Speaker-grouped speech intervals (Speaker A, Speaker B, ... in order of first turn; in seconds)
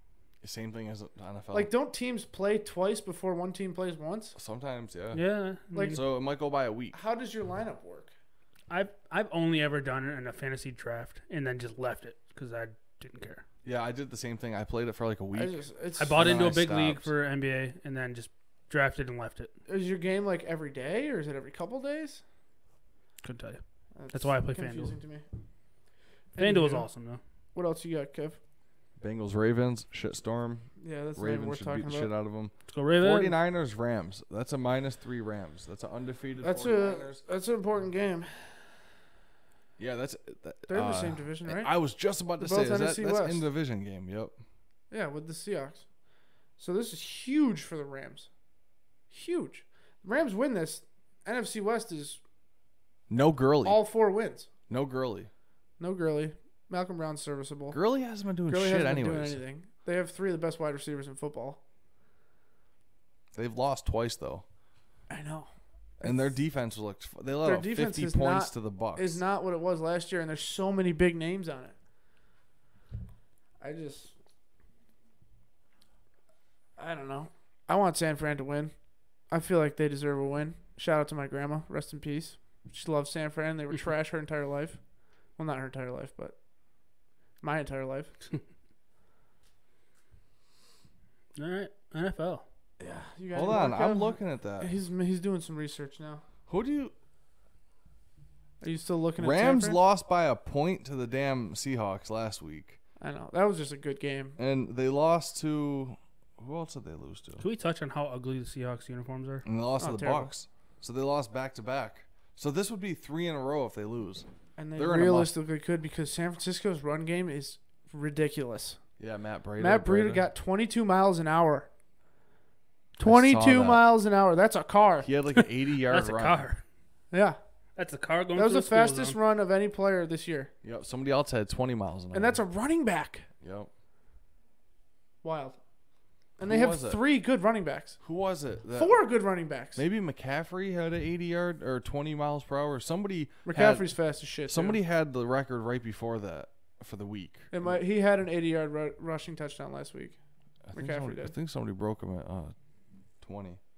Speaker A: 0.4-1.7, 4.4-5.2, 5.9-7.0, 13.6-15.6, 16.1-17.1, 29.0-37.2, 39.8-44.4, 53.1-53.8, 54.7-55.3, 57.7-59.4, 63.3-64.5, 66.0-69.2, 93.3-94.7, 96.5-96.9, 99.2-102.8, 104.4-107.5, 109.5-115.3, 119.0-120.3, 123.0-123.9, 125.0-126.5, 130.6-132.4, 133.4-133.7, 136.4-137.0, 138.0-139.0, 139.8-143.9, 144.4-147.5, 150.7-152.5, 153.2-153.6
Speaker B: 1.5-4.3, 5.7-6.0, 6.9-8.1, 15.3-16.2, 19.7-22.2, 24.0-25.2, 26.4-26.9, 27.6-28.4, 30.8-32.1, 36.4-38.7, 40.7-41.7, 42.4-43.5, 44.9-45.9, 46.6-48.3, 49.1-52.2, 53.6-54.5, 55.8-57.8, 58.5-61.6, 65.1-66.3, 67.4-71.8, 73.6-74.1, 76.8-78.7, 79.3-84.8, 85.4-86.4, 87.4-88.1, 92.8-96.2, 98.6-99.8, 103.0-104.4, 109.8-110.3, 114.6-118.8, 119.6-121.7, 123.0-125.1, 127.1-127.4, 128.3-130.5, 132.1-133.3, 135.2-135.6, 136.4-138.0, 138.8-139.8, 143.4-144.8, 147.5-150.2, 150.7-151.3
Speaker C: 5.1-6.0, 8.7-13.4, 16.0-19.5, 23.2-23.6, 24.1-24.9, 26.4-27.2, 32.7-33.4, 91.3-92.5, 107.4-109.5, 125.3-126.6, 127.8-129.2